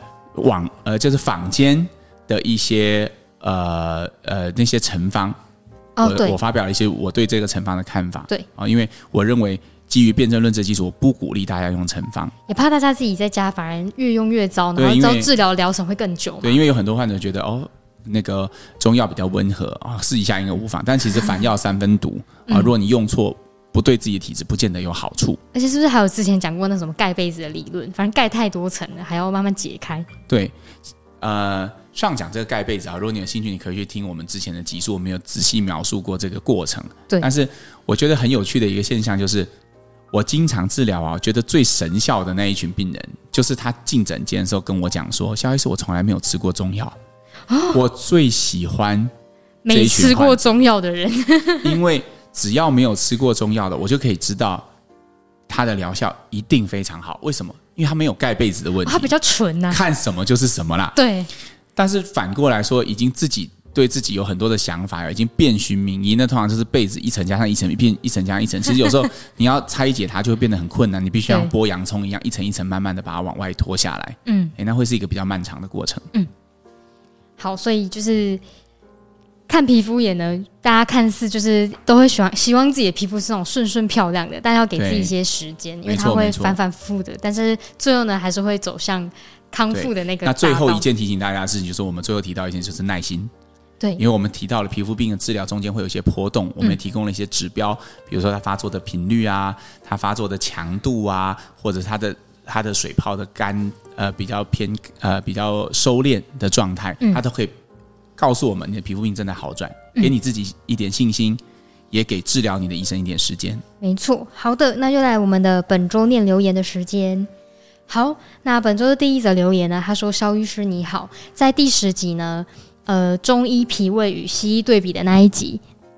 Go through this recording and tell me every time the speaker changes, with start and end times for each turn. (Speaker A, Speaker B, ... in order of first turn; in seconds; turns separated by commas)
Speaker A: 0.3-5.4, Speaker B: 6.0-6.4, Speaker A: 6.0-12.3, Speaker B: 12.5-16.6, Speaker A: 14.8-15.3, Speaker A: 16.4-25.4, Speaker B: 22.5-22.7, Speaker B: 25.5-30.1, Speaker A: 30.3-30.5, Speaker A: 31.2-39.5, Speaker A: 40.1-47.0, Speaker B: 47.5-47.8, Speaker A: 47.7-49.1, Speaker B: 49.6-51.8, Speaker A: 49.7-50.6, Speaker A: 51.6-54.7, Speaker A: 55.5-59.1, Speaker B: 58.8-59.8, Speaker A: 59.7-61.0, Speaker B: 60.9-61.3, Speaker A: 61.8-76.1, Speaker B: 71.3-71.5, Speaker B: 74.2-74.5, Speaker B: 77.4-78.4, Speaker B: 79.5-90.8, Speaker A: 84.8-85.1, Speaker A: 85.8-86.6, Speaker A: 89.7-93.3, Speaker A: 94.0-107.5, Speaker A: 108.2-113.6, Speaker B: 113.8-117.3, Speaker B: 117.9-125.6